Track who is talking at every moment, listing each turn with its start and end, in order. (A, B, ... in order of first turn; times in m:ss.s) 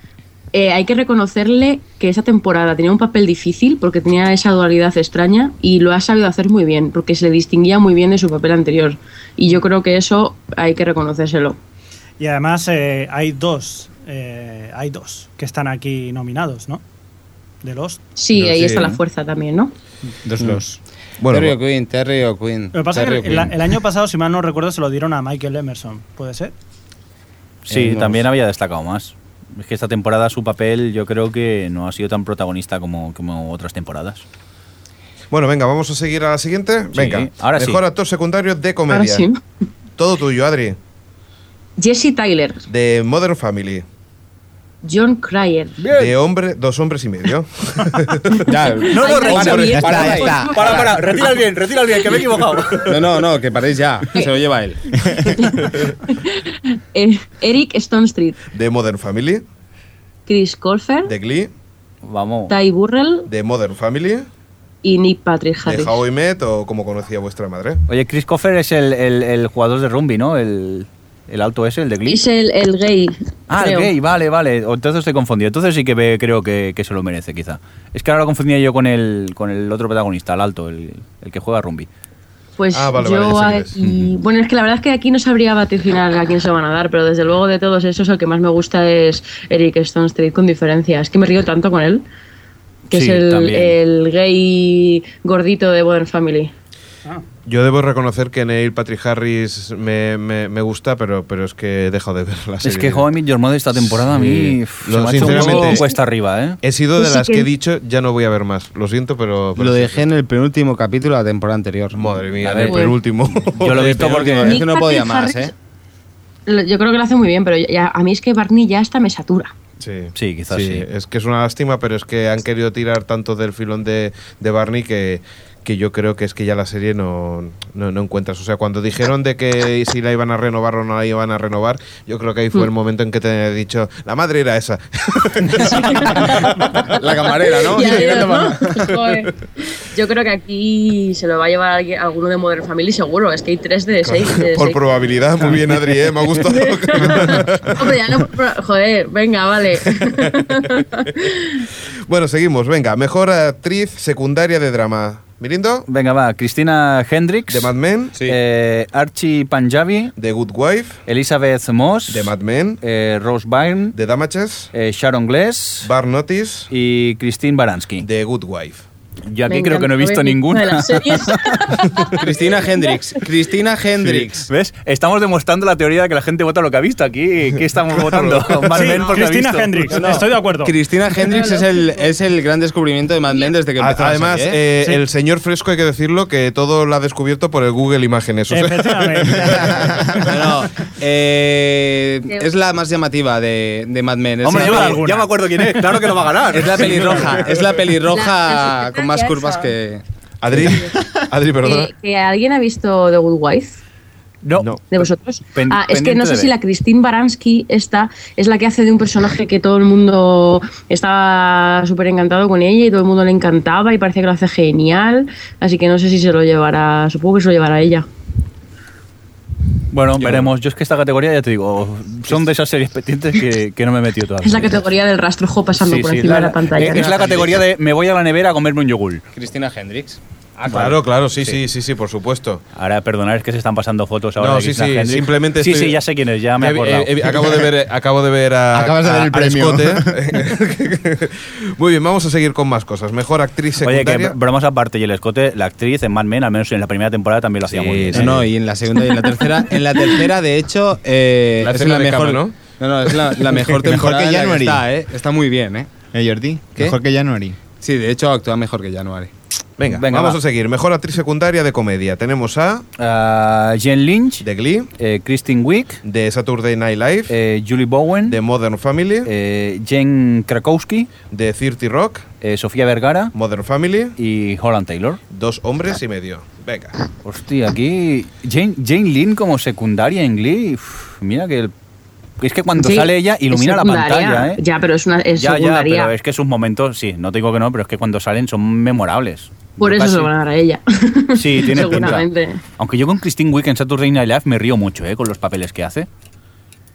0:00.5-0:11.6 A
0:12.2-0:16.8 B
0:17.6-0:18.0 B
0:18.2-0:19.7 A
0:18.4-0:18.9 C
0:18.6-0:18.9 D
0:20.2-0:20.8 E
0:21.2-0:21.5 C
0:21.3-0:23.7 F
0:22.7-0:26.5 B
0:27.6-0:34.2 D
0:27.7-0:28.2 F
0:35.3-0:39.3 C
0:36.9-0:37.8 D
0:38.9-0:39.4 A
0:40.0-0:40.8 C
0:41.8-0:42.6 A
0:42.7-0:43.8 C
0:44.8-0:45.8 A
0:45.8-0:46.2 D
0:45.9-0:48.6 C
0:48.4-0:50.9 F
0:48.5-0:51.2 A
0:49.0-0:53.0 D
0:49.4-0:50.8 E
0:52.8-0:55.0 F
0:55.2-0:58.4 A
0:58.5-0:59.4 C
1:00.3-1:01.1 A
1:01.0-1:01.5 C
1:02.0-1:02.5 D
1:02.5-1:03.3 A
1:03.3-1:04.3 C
1:04.8-1:06.0 A
1:05.6-1:07.8 C
1:07.9-1:12.2 D
1:12.0-1:13.9 A
1:13.5-1:21.9 D
1:22.6-1:32.0 A
1:22.7-1:23.7 C
1:23.8-1:24.1 D
1:32.9-1:36.5 A
1:32.9-1:33.8 D
1:37.4-1:43.1 C
1:42.6-1:46.6 D
1:43.7-1:45.8 C
1:45.2-1:46.0 A
1:46.6-1:50.0 C
1:47.0-1:47.5 A
1:49.6-1:52.2 F
1:52.0-1:54.3 C
1:52.4-1:53.0 D
1:52.6-1:52.9 A
1:53.5-1:54.6 D
1:53.7-1:55.5 F
1:54.4-1:55.5 A
1:56.5-1:59.5 A
1:59.8-2:17.0 C
2:00.2-2:00.8 D
2:15.5-2:24.8 A
2:16.2-2:19.0 F
2:24.0-2:27.9 C
2:26.4-2:31.6 A
2:30.2-2:30.6 C
2:32.1-2:35.8 C
2:35.9-2:40.1 D
2:37.5-2:38.2 C
2:40.2-2:41.0 C
2:41.0-2:44.0 D
2:42.1-2:42.8 C
2:43.9-2:44.7 C
2:44.7-2:45.9 D
2:45.8-2:46.7 C
2:46.7-2:48.1 D
2:48.0-2:48.8 C
2:49.3-2:51.8 D
2:49.5-2:53.0 A
2:52.1-2:54.5 F
2:54.0-3:00.1 D
2:57.9-2:59.2 C
2:58.7-3:00.8 B
2:59.9-3:04.6 F
3:01.2-3:01.8 A
3:03.8-3:09.9 C
3:08.5-3:10.4 B
3:09.6-3:10.0 E
3:10.2-3:15.1 F
3:14.4-3:17.4 D
3:14.5-3:15.2 B
3:16.5-3:20.6 F
3:18.1-3:19.7 A
3:20.4-3:21.9 C
3:20.6-3:20.9 A
3:21.6-3:23.8 A
3:24.4-3:25.0 D
3:24.9-3:38.0 A
3:25.5-3:26.5 D
3:39.9-3:44.8 D
3:40.2-3:40.5 F
3:44.4-3:47.3 A
3:45.8-3:49.2 D
3:46.8-3:47.6 F
3:49.3-3:51.0 F
3:50.7-3:51.6 D
3:50.7-3:52.6 C
3:52.7-3:57.6 D
3:54.4-3:56.0 C
3:56.6-4:04.4 C
3:58.7-4:00.2 E
4:03.8-4:08.4 D
4:07.7-4:08.4 C
4:08.1-4:15.9 F
4:09.0-4:09.4 A
4:11.6-4:12.6 C
4:13.7-4:14.8 E
4:16.1-4:17.6 E
4:17.8-4:19.3 F
4:19.8-4:22.8 C
4:19.9-4:20.4 D
4:23.0-4:24.4 D
4:24.4-4:24.9 C
4:25.0-4:26.0 D
4:26.0-4:27.3 C
4:27.3-4:28.4 D
4:28.3-4:29.3 C
4:29.2-4:31.1 D
4:31.3-4:32.2 C
4:32.4-4:33.3 D
4:33.3-4:34.1 C
4:34.2-4:35.2 D
4:35.3-4:37.0 C
4:37.2-4:41.7 D
4:42.4-4:44.6 D
4:42.8-4:46.1 A
4:45.4-4:50.3 D
4:49.8-4:52.6 A
4:51.3-4:56.1 D